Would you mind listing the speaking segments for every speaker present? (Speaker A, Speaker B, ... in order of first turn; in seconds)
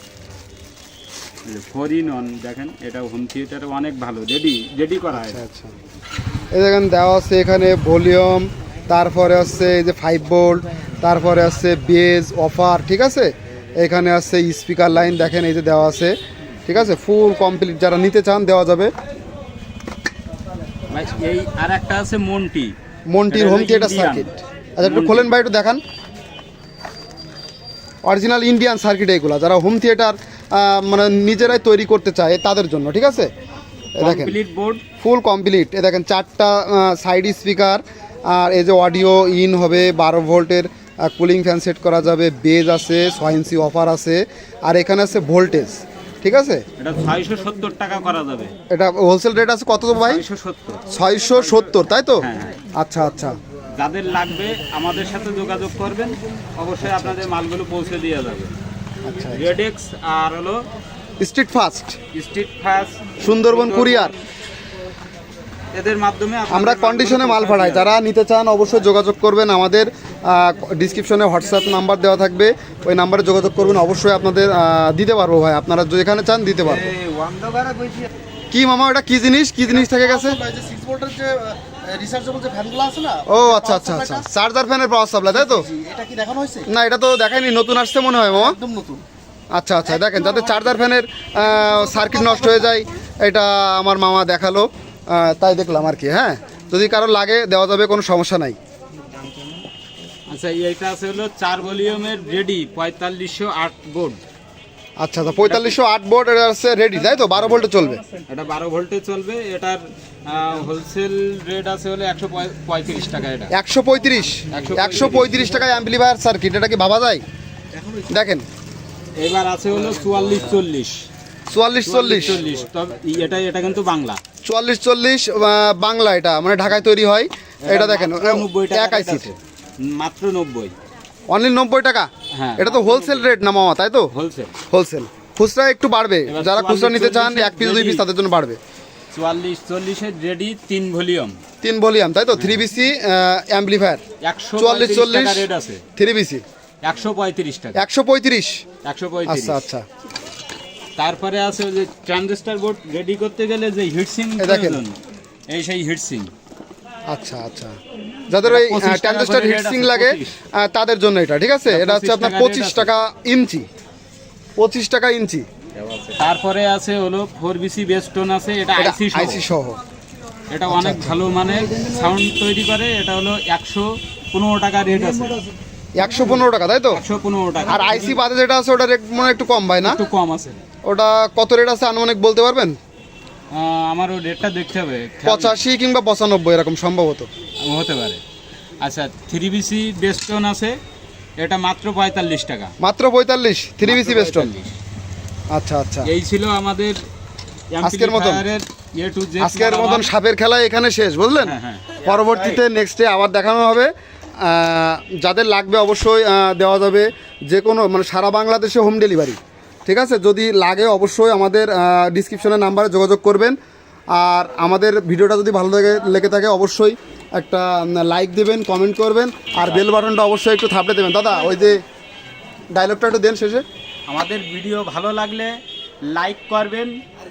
Speaker A: 1.4-5.4, 20.9-22.8, 23.3-24.3, 24.8-25.4, 34.0-34.8, 46.8-48.5, 50.0-50.8, 52.2-52.6, 53.8-58.5, 59.3-60.6, 62.1-64.2, 65.7-68.0, 100.3-104.2, 105.4-105.8, 107.4-107.7, 108.3-113.5, 114.5-115.5, 119.2-121.1, 121.9-124.2, 127.6-130.7, 132.3-133.3, 134.1-134.6, 136.3-138.0, 139.1-141.4, 142.3-142.6, 144.2-145.8, 146.8-147.8, 148.8-149.7, 151.0-155.0, 155.5-156.3, 158.4-160.3, 161.7-162.9, 165.8-169.4, 170.5-175.4, 176.9-178.2, 179.8-180.6, 183.5-185.6, 187.6-188.2, 188.8-190.8, 191.4-192.7, 193.8-194.8, 196.0-197.0, 197.7-200.1, 201.4-202.2, 224.1-227.0
Speaker B: 5.1-5.7, 6.5-18.9, 23.1-25.8, 28.1-33.3, 34.0-34.4, 35.0-46.6, 48.7-50.2, 50.9-53.4, 56.8-57.3, 59.0-59.6, 61.2-62.0, 63.2-64.1, 66.5-76.9, 78.5-80.4, 83.3-85.7, 86.7-88.6, 89.5-98.6, 105.0-108.0, 113.5-117.2, 118.1-118.5, 121.5-122.4, 124.4-129.3, 131.3-134.1, 134.7-138.6, 141.6-144.0, 144.6-146.4, 147.8-148.6, 149.3-149.8, 154.4-154.8, 157.1-157.8, 158.3-163.7, 164.6-165.5, 168.8-169.8, 170.7-171.2, 176.0-177.0, 177.7-180.0, 180.8-182.8, 185.2-187.3, 192.8-194.5, 195.5-196.1, 197.8-198.4, 199.4-213.6, 214.1-221.8, 222.7-223.6
Speaker C: 77.0-78.0, 79.9-83.3, 85.7-86.7, 88.6-89.0